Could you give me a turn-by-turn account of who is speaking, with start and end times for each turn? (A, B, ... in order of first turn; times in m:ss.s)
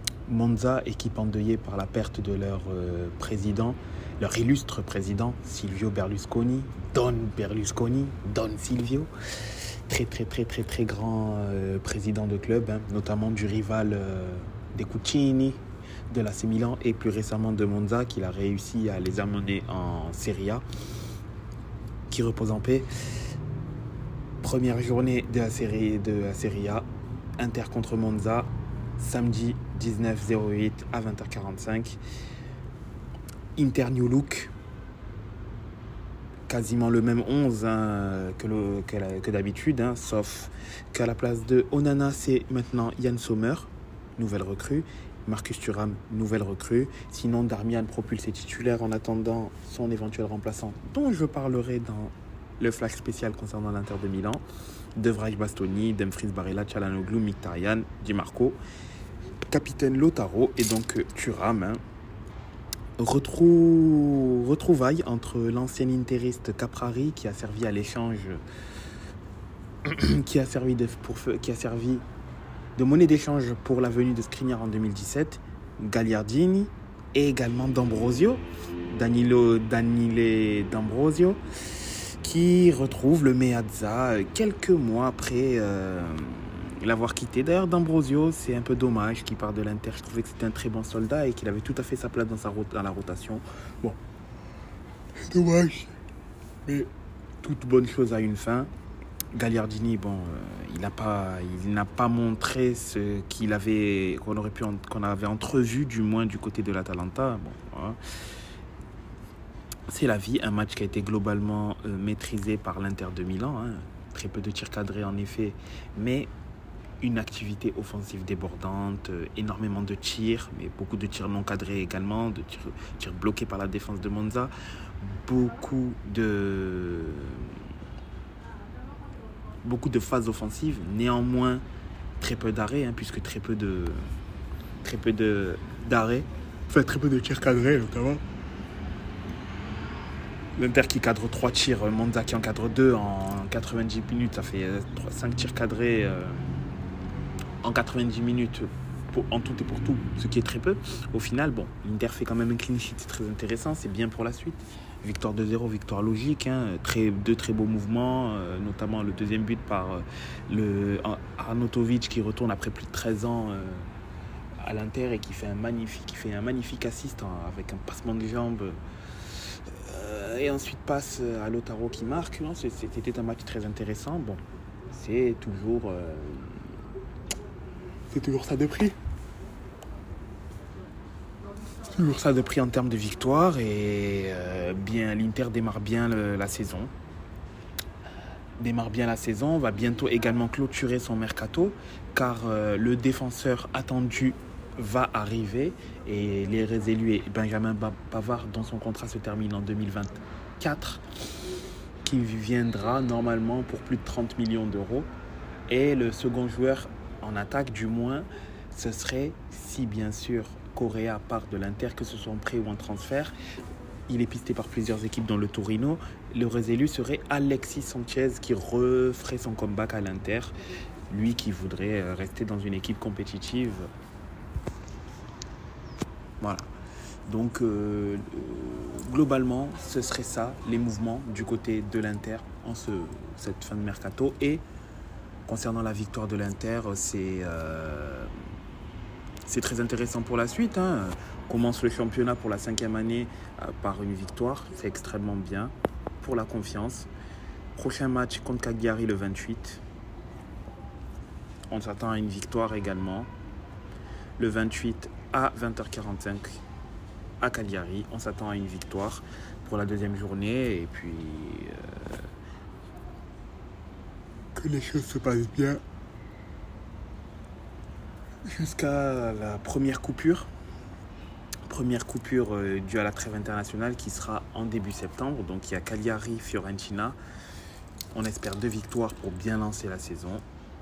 0:00.3-0:20.6 A
0:22.1-0:22.9 A
0:24.4-0:26.9 A
0:27.4-0:32.0 A
0:33.6-0:34.5 A
0:36.5-0:54.4 A
0:55.0-0:58.6 A
0:59.5-1:01.8 A
1:03.0-1:08.4 A
1:09.8-1:12.0 A
1:12.8-1:34.0 A
1:35.2-1:36.0 A
1:36.6-1:36.9 A
1:37.4-1:38.7 A
1:39.3-1:48.0 A
1:49.9-1:56.3 A
1:57.0-2:07.6 A
2:09.6-2:11.6 A
2:12.2-2:14.1 A
2:14.8-2:18.2 A
2:20.6-2:26.8 A
2:27.6-2:43.9 A
2:44.6-2:56.7 A
2:58.1-2:59.0 A
3:01.9-3:06.9 A
3:08.6-3:21.0 A
3:22.0-3:25.1 A
3:25.7-3:33.3 A
3:34.1-3:40.5 A
3:41.1-3:43.9 A
3:46.4-3:46.7 A
3:47.3-3:54.6 A
3:55.5-3:58.3 A
3:59.5-4:07.1 A
4:07.8-4:09.8 A
4:11.7-4:13.3 A
4:14.4-4:16.6 A
4:17.4-4:22.3 A
4:24.6-4:25.8 A
4:28.4-4:30.5 A
4:31.7-4:37.2 A
4:38.1-4:40.4 A